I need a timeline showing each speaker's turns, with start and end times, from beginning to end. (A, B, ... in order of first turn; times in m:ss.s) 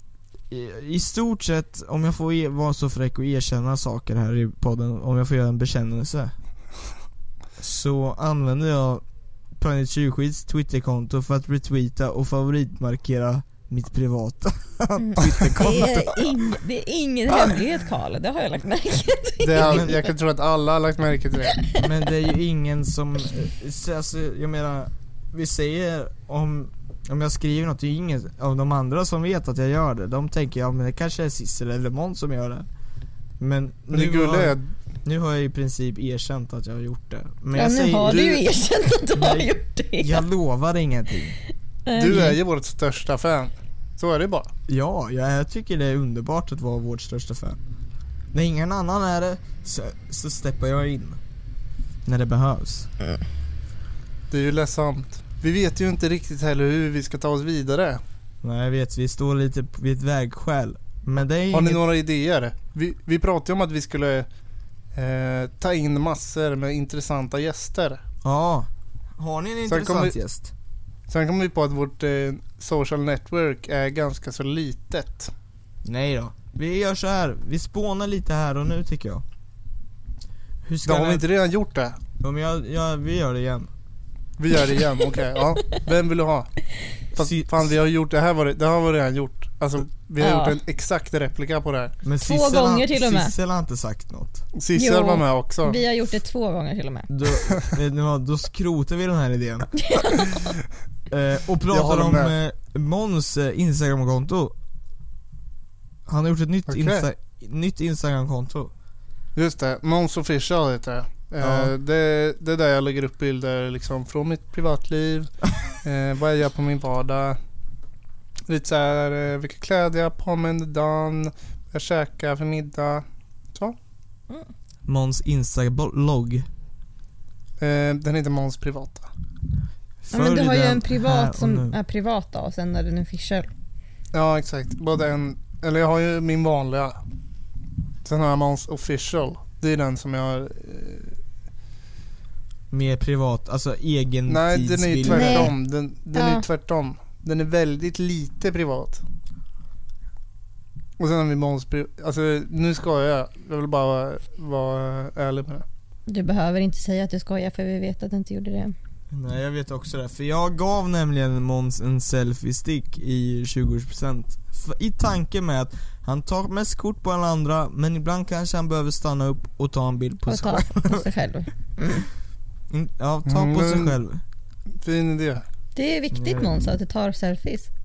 0:00.5-0:06.3 A
0:07.6-0:09.0 A
0:09.6-0:16.4 A
0:15.0-0:20.1 B
0:17.3-0:17.6 A
0:19.4-0:21.6 C
0:19.6-0:20.0 A
0:21.8-0:32.6 A
0:33.4-0:38.2 A
0:33.9-0:34.7 C
0:37.5-0:40.2 B
0:38.0-0:38.5 C
0:39.2-0:39.5 A
0:40.0-0:41.4 A
0:41.9-0:42.4 B
0:42.0-0:44.5 C
0:44.7-0:47.6 A
0:48.3-0:51.2 A
0:52.0-0:52.9 A
0:54.3-0:58.0 C
0:58.4-1:01.8 A
1:01.5-1:04.3 C
1:04.9-1:08.0 C
1:08.2-1:10.5 A
1:09.7-1:10.2 C
1:11.1-1:15.3 C
1:15.8-1:19.2 A
1:20.6-1:21.2 A
1:20.8-1:22.0 C
1:22.2-1:23.7 A
1:24.4-1:26.5 C
1:27.1-1:27.7 A
1:27.1-1:32.0 C
1:30.2-1:30.6 B
1:32.0-1:34.4 A
1:32.2-1:33.3 B
1:34.5-1:35.8 C
1:34.7-1:37.1 B
1:37.1-1:39.7 A
1:39.7-1:40.5 B
1:41.1-1:44.5 A
1:41.7-1:42.3 C
1:46.1-1:48.7 A
1:46.7-1:47.1 C
1:49.4-1:55.3 C
1:51.4-1:51.7 A
1:55.8-1:57.4 C
1:58.5-2:03.8 C
2:04.8-2:06.5 A
2:07.6-2:09.1 C
2:10.0-2:11.8 A
2:10.1-2:13.5 B
2:14.1-2:17.0 C
2:18.0-2:21.2 C
2:22.7-2:25.5 A
2:24.3-2:29.0 C
2:25.0-2:25.5 B
2:26.1-2:26.4 B
2:31.0-2:35.6 C
2:36.1-2:38.7 B
2:39.1-2:51.1 A
2:50.3-2:52.1 B
2:52.7-2:54.2 A
2:53.2-2:54.0 C
2:54.8-2:55.4 C
2:55.8-2:57.7 B
2:56.1-2:56.6 A